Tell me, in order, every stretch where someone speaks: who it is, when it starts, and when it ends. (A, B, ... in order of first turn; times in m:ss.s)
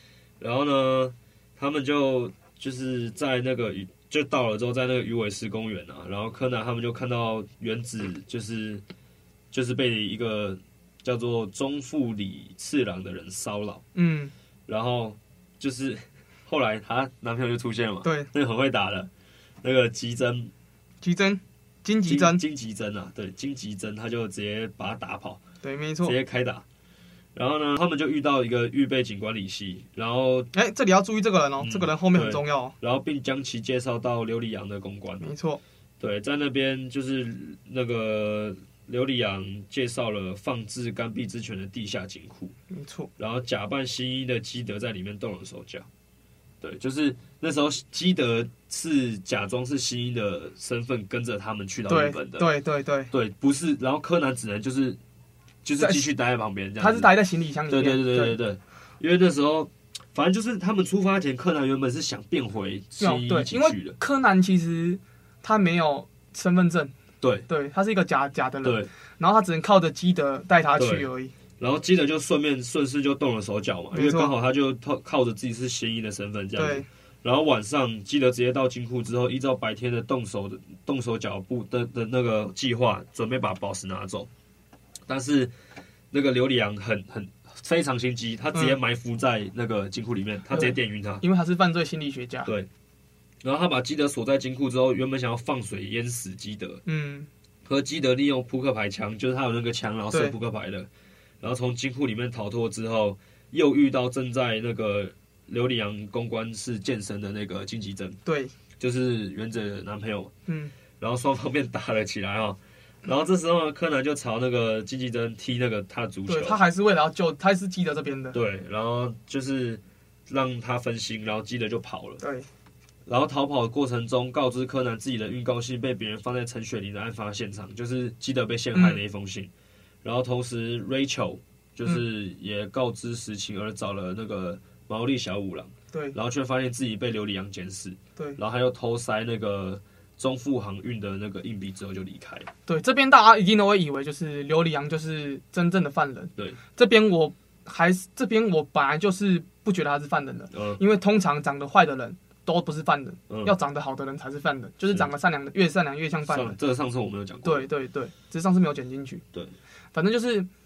0:00.4-0:08.8 A
0:09.5-0:13.8 A
0:14.0-0:14.3 B
0:14.7-0:19.1 A
0:18.0-0:18.3 B
0:19.6-0:20.5 A
0:21.0-0:22.4 B
0:22.1-0:25.4 A
0:25.6-0:26.2 B
0:26.0-0:26.6 A
0:27.4-0:30.5 A
0:30.5-0:32.8 B
0:31.6-0:35.3 A
0:35.2-0:35.6 B
0:36.0-0:42.6 A
0:42.7-0:43.1 B
0:43.2-0:45.9 A
0:46.6-0:52.5 A
0:51.9-0:53.1 B
0:53.1-0:55.0 A
0:55.6-0:57.1 A
0:55.8-0:56.1 B
0:56.8-0:58.4 B
0:57.7-1:04.0 A
1:03.0-1:06.9 B
1:07.2-1:07.5 A
1:07.5-1:11.3 B
1:08.6-1:08.9 A
1:10.8-1:11.1 A
1:11.6-1:24.3 A
1:13.9-1:14.3 B
1:16.6-1:16.9 B
1:25.1-1:25.5 A
1:26.1-1:31.2 A
1:30.5-1:32.5 B
1:33.4-1:36.8 A
1:36.9-1:37.3 B
1:37.7-1:40.9 A
1:41.4-1:48.2 A
1:48.2-1:48.5 B
1:48.8-1:50.3 A
1:50.5-1:50.7 B
1:51.0-1:56.6 A
1:56.3-1:58.4 B
1:58.3-2:02.2 A
2:02.2-2:02.5 B
2:03.1-2:09.5 A
2:08.7-2:09.0 B
2:10.0-2:22.5 A
2:22.7-2:36.6 B
2:30.5-2:30.8 A
2:36.3-2:37.7 A
2:37.4-2:39.2 B
2:39.9-2:40.5 B